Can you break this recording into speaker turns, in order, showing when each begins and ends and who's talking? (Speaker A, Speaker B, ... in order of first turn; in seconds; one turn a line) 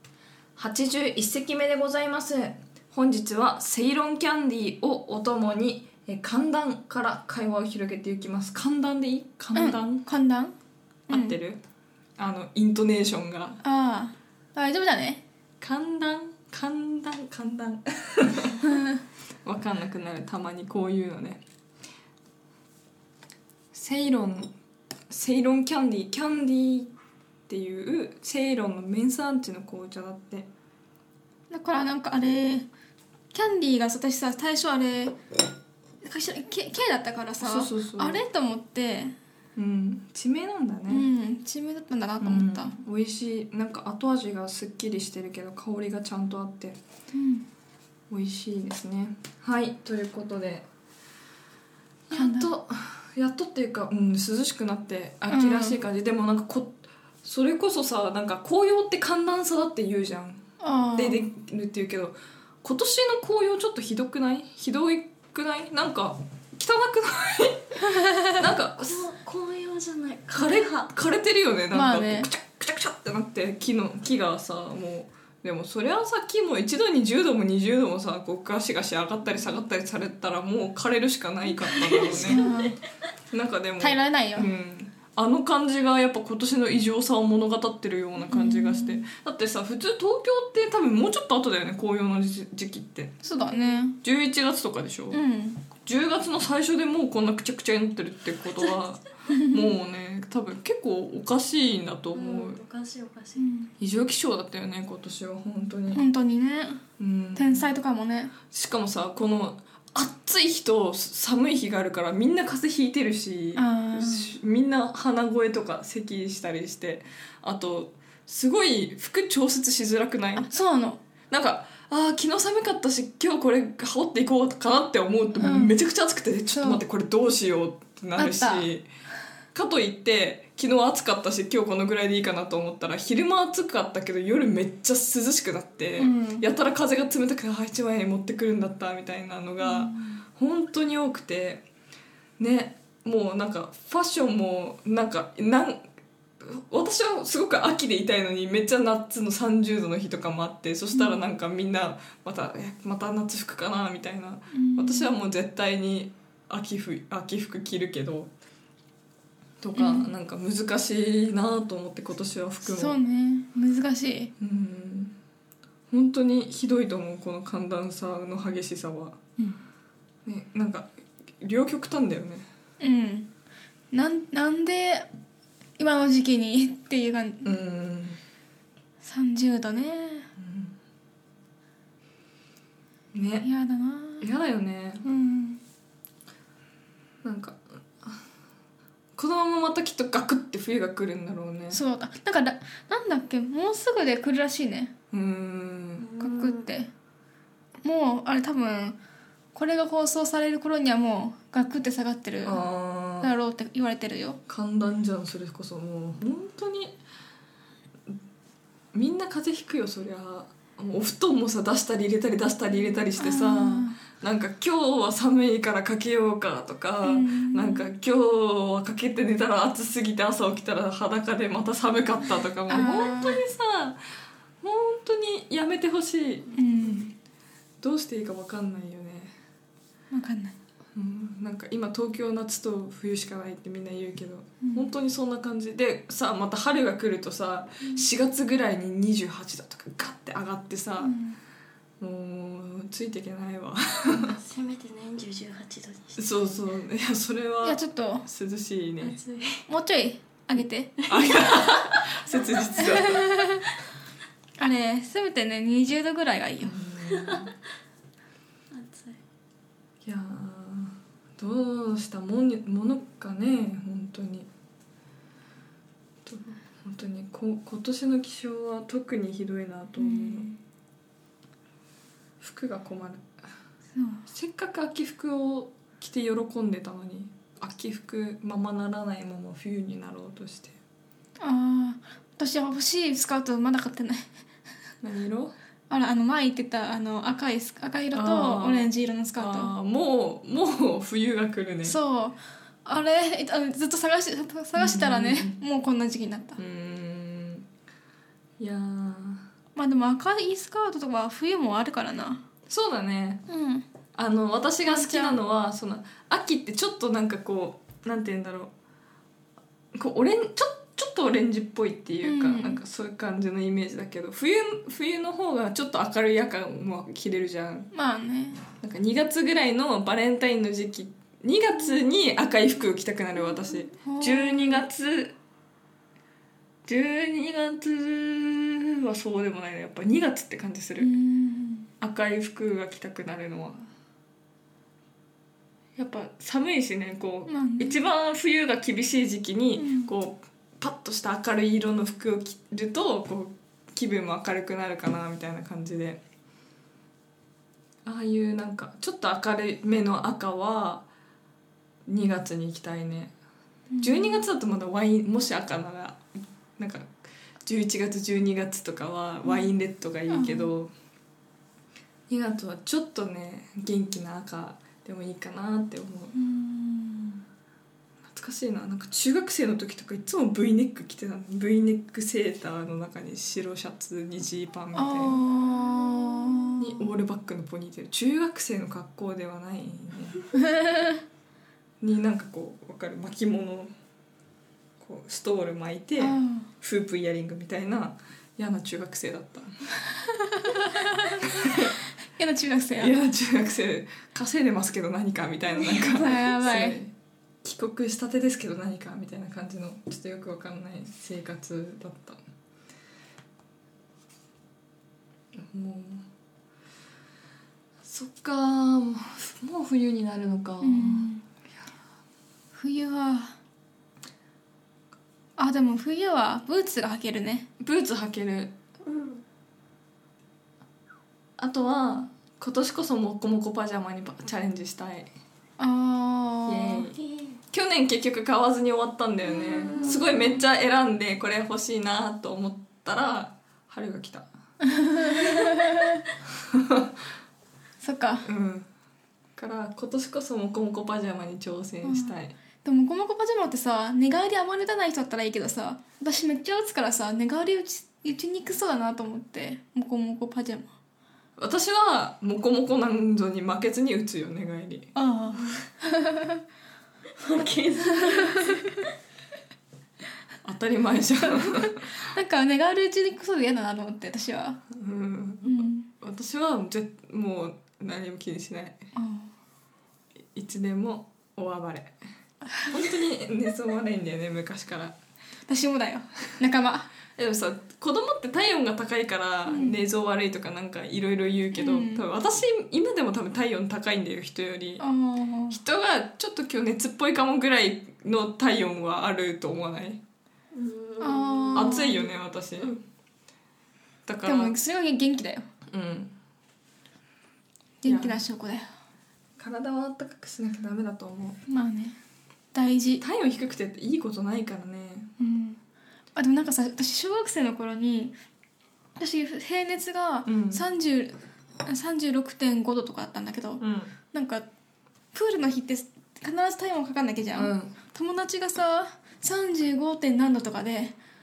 Speaker A: 0.6-10.1
Speaker B: 9.6-10.5
Speaker B: 11.1-11.4
Speaker A: 11.1-11.6
Speaker A: 12.2-13.6
Speaker B: 13.6-15.2
Speaker A: 15.6-18.7
Speaker A: 19.4-21.4
Speaker A: 23.7-24.5
Speaker A: 25.1-26.9
Speaker A: 27.5-30.5
Speaker B: 31.5-32.7
Speaker B: 33.3-35.2
Speaker B: 36.0-39.1
Speaker A: 37.4-38.2
Speaker A: 39.6-41.1
Speaker B: 40.9-42.8
Speaker A: 42.2-46.8
Speaker B: 47.1-47.5
Speaker A: 48.1-50.7
Speaker A: 52.1-60.4
Speaker B: 52.1-52.5
Speaker B: 55.3-55.8
Speaker B: 60.6-61.2
Speaker A: 61.0-69.1
Speaker B: 67.9-68.4
Speaker C: 68.9-70.9
Speaker A: 70.3-82.4
Speaker B: 71.7-72.3
Speaker B: 82.0-82.8
Speaker A: 83.3-93.2
Speaker B: 83.8-84.5
Speaker B: 88.3-89.0
Speaker B: 93.2-94.0
Speaker A: 94.0-95.2
Speaker B: 95.1-95.6
Speaker A: 95.8-102.6
Speaker B: 99.3-99.7
Speaker C: 102.2-103.4
Speaker B: 103.4-103.7
Speaker A: 103.8-106.0
Speaker B: 105.9-106.8
Speaker A: 107.0-107.7
Speaker B: 107.4-108.3
Speaker A: 108.5-120.5
Speaker B: 113.5-114.3
Speaker B: 120.4-121.0
Speaker A: 121.3-128.9
Speaker B: 125.3-125.8
Speaker B: 126.5-126.8
Speaker B: 128.2-128.7
Speaker A: 129.5-141.7
Speaker B: 136.0-136.4
Speaker B: 139.6-140.2
Speaker A: 142.4-145.8
Speaker A: 146.4-158.3
Speaker B: 154.5-155.1
Speaker A: 159.6-163.0
Speaker B: 159.8-160.1
Speaker B: 162.6-164.3
Speaker A: 164.4-165.2
Speaker A: 165.9-169.2
Speaker A: 170.3-172.5
Speaker B: 172.8-173.3
Speaker B: 173.9-175.1
Speaker B: 175.8-177.5
Speaker A: 177.4-178.2
Speaker B: 179.0-180.3
Speaker A: 180.4-180.8
Speaker A: 183.1-183.5
Speaker B: 183.4-184.3
Speaker A: 184.2-185.1
Speaker B: 185.0-185.6
Speaker A: 187.2-188.1
Speaker A: 189.2-191.8
Speaker B: 191.7-194.9
Speaker A: 195.1-196.1
Speaker B: 196.2-196.9
Speaker B: 197.8-199.0
Speaker B: 199.5-202.6
Speaker A: 202.4-203.3
Speaker B: 203.2-204.4
Speaker A: 204.5-207.0
Speaker A: 208.9-224.0
Speaker B: 213.2-214.0
Speaker B: 217.0-217.9
Speaker B: 222.7-223.4
Speaker A: 224.6-226.5
Speaker B: 226.6-227.1
Speaker A: 227.8-229.3
Speaker B: 230.1-230.6
Speaker A: 230.9-241.2
Speaker B: 234.6-234.9
Speaker B: 241.0-241.4
Speaker A: 242.0-244.3
Speaker C: 244.2-246.2
Speaker A: 246.2-249.2
Speaker B: 247.6-248.2
Speaker C: 249.0-249.6
Speaker B: 249.7-251.1
Speaker A: 251.1-253.3
Speaker C: 251.3-251.8
Speaker B: 252.8-253.7
Speaker B: 254.6-256.7
Speaker A: 256.6-257.6
Speaker C: 258.7-259.2
Speaker A: 260.1-264.5
Speaker A: 266.3-270.5
Speaker B: 270.0-270.6
Speaker A: 272.4-273.3
Speaker B: 273.9-274.2
Speaker A: 274.3-280.8
Speaker B: 281.4-284.3
Speaker A: 285.0-285.6
Speaker B: 285.9-289.7
Speaker A: 288.1-292.0
Speaker B: 291.8-296.6
Speaker A: 294.8-295.6
Speaker A: 296.6-297.7
Speaker A: 298.6-299.5
Speaker B: 299.8-302.4
Speaker A: 302.7-303.4
Speaker B: 303.5-303.9
Speaker A: 304.1-308.7
Speaker B: 304.9-305.4
Speaker A: 309.9-317.9
Speaker B: 312.2-312.8
Speaker B: 317.9-318.6
Speaker A: 318.7-325.4
Speaker B: 324.0-324.9
Speaker A: 326.9-331.1
Speaker B: 331.0-331.9
Speaker A: 332.0-333.8
Speaker A: 336.0-346.2
Speaker B: 337.5-338.0
Speaker B: 339.8-340.1
Speaker A: 348.1-351.1
Speaker A: 352.1-353.3
Speaker B: 353.9-354.5
Speaker A: 354.0-356.2
Speaker A: 356.8-357.1
Speaker A: 357.7-360.9
Speaker B: 360.3-360.7
Speaker A: 362.3-366.4
Speaker B: 366.4-367.4
Speaker A: 368.3-375.4
Speaker B: 374.9-377.1
Speaker A: 376.8-380.4
Speaker B: 380.7-381.1
Speaker A: 382.0-383.9
Speaker A: 385.0-389.8
Speaker B: 386.2-386.7
Speaker B: 390.6-391.5
Speaker A: 391.4-391.9
Speaker B: 392.4-393.1
Speaker A: 393.0-397.1
Speaker B: 395.8-397.0
Speaker A: 397.6-402.4
Speaker A: 405.6-406.2
Speaker A: 408.0-411.3
Speaker B: 410.8-411.4
Speaker B: 412.7-413.5
Speaker B: 415.6-417.7
Speaker A: 417.8-418.8
Speaker A: 421.6-425.3
Speaker B: 425.8-427.1
Speaker A: 426.7-434.5
Speaker B: 434.8-436.2
Speaker A: 435.3-435.6
Speaker A: 436.7-437.1
Speaker B: 438.0-438.5
Speaker A: 438.4-438.9
Speaker A: 439.6-442.6
Speaker B: 442.0-450.9
Speaker A: 451.6-455.1
Speaker B: 455.1-456.6
Speaker C: 457.4-458.8
Speaker A: 460.6-462.1
Speaker B: 461.5-464.8
Speaker A: 464.9-469.0
Speaker B: 465.6-466.1
Speaker B: 469.1-469.5
Speaker A: 470.6-472.1
Speaker B: 472.8-473.1
Speaker A: 472.9-475.2
Speaker B: 475.7-477.1
Speaker A: 477.4-485.1
Speaker B: 479.7-480.0
Speaker B: 481.7-482.2
Speaker B: 485.0-485.8
Speaker A: 485.7-490.2
Speaker C: 490.8-491.2
Speaker B: 491.2-492.3
Speaker A: 491.7-493.0
Speaker A: 494.3-494.8
Speaker B: 494.4-495.6
Speaker A: 495.9-496.3
Speaker B: 498.0-498.9
Speaker A: 498.1-498.4
Speaker A: 499.6-501.6
Speaker B: 501.7-502.2
Speaker B: 502.7-503.2
Speaker A: 503.2-505.3
Speaker B: 505.4-505.8
Speaker B: 506.4-508.3
Speaker B: 509.2-513.8
Speaker A: 510.5-510.9
Speaker A: 513.8-514.1
Speaker B: 514.3-514.7
Speaker B: 515.3-521.1
Speaker A: 517.5-518.0